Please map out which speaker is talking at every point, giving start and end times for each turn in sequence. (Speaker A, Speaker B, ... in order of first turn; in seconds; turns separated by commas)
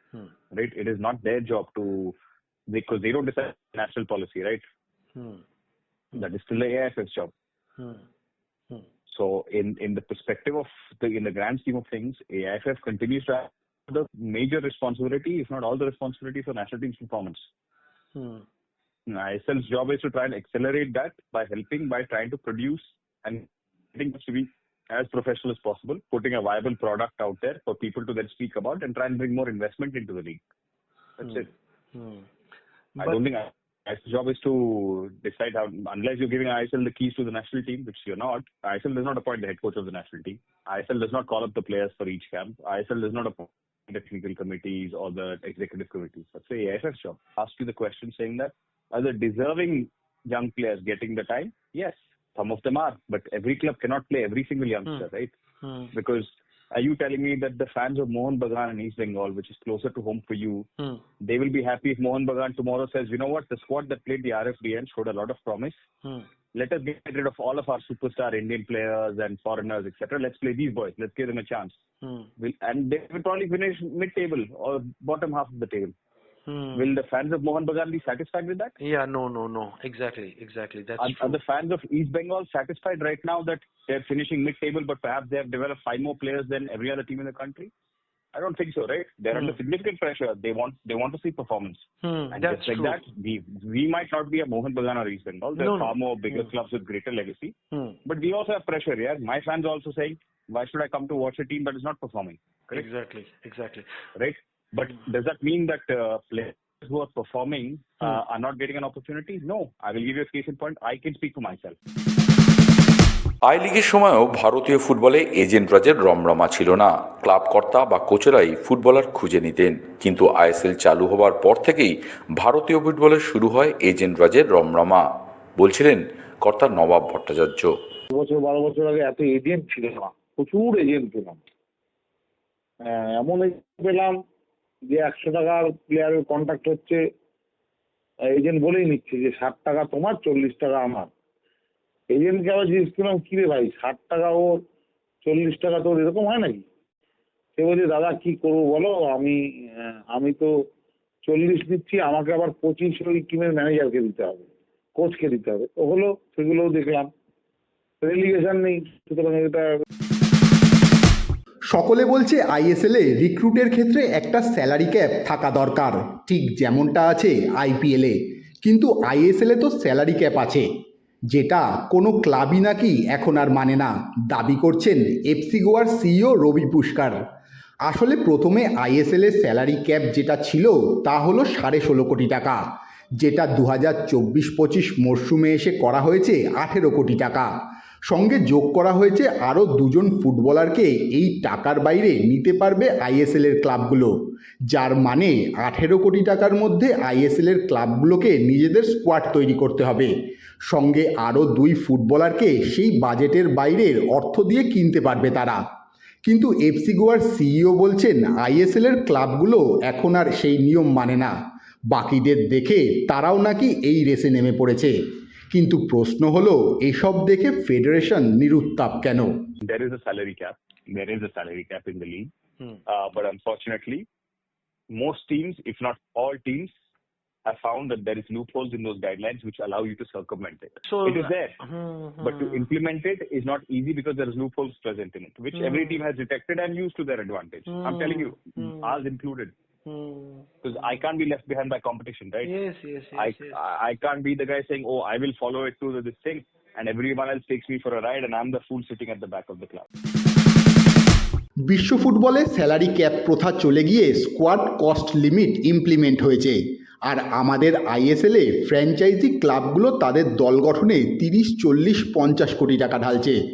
Speaker A: 0.5-2.1, Speaker A: 2.7-4.6, Speaker B: 5.1-5.4, Speaker A: 6.1-7.3, Speaker B: 7.8-8.0, Speaker A: 9.1-17.5, Speaker B: 18.1-18.4, Speaker A: 19.1-30.4, Speaker A: 31.2-31.5, Speaker B: 31.2-32.3, Speaker B: 33.0-33.2, Speaker A: 33.0-55.3, Speaker B: 55.6-55.9, Speaker A: 55.9-60.7, Speaker A: 61.2-65.8, Speaker B: 66.0-66.3, Speaker A: 66.5-71.8, Speaker B: 72.0-72.3, Speaker A: 72.4-75.9, Speaker B: 76.5-77.0, Speaker A: 76.7-78.7, Speaker B: 78.8-81.4, Speaker A: 81.0-87.7, Speaker A: 88.3-102.9, Speaker B: 89.3-89.6, Speaker B: 92.0-93.0, Speaker B: 95.6-96.5, Speaker B: 97.7-98.0, Speaker B: 102.7-103.9, Speaker A: 104.2-111.8, Speaker C: 113.4-127.8, Speaker D: 128.1-131.4, Speaker D: 132.8-134.2, Speaker D: 134.9-137.0, Speaker D: 138.3-141.1, Speaker D: 142.1-144.6, Speaker D: 145.2-146.6, Speaker D: 147.6-150.5, Speaker D: 151.2-157.1, Speaker D: 158.0-159.7, Speaker E: 161.7-170.7, Speaker E: 171.3-177.2, Speaker E: 177.8-182.6, Speaker E: 183.2-187.5, Speaker E: 188.1-194.1, Speaker E: 194.7-200.1, Speaker E: 200.7-205.6, Speaker E: 206.2-211.3, Speaker E: 211.9-215.0, Speaker E: 215.5-219.5, Speaker A: 219.6-222.3, Speaker A: 222.9-224.1, Speaker A: 224.9-226.7, Speaker A: 227.4-231.6, Speaker B: 230.8-232.7, Speaker A: 232.2-239.5, Speaker B: 235.5-236.0, Speaker B: 237.7-239.1, Speaker B: 239.8-241.0, Speaker A: 240.6-242.5, Speaker B: 242.4-243.6, Speaker A: 243.1-249.8, Speaker E: 251.6-263.4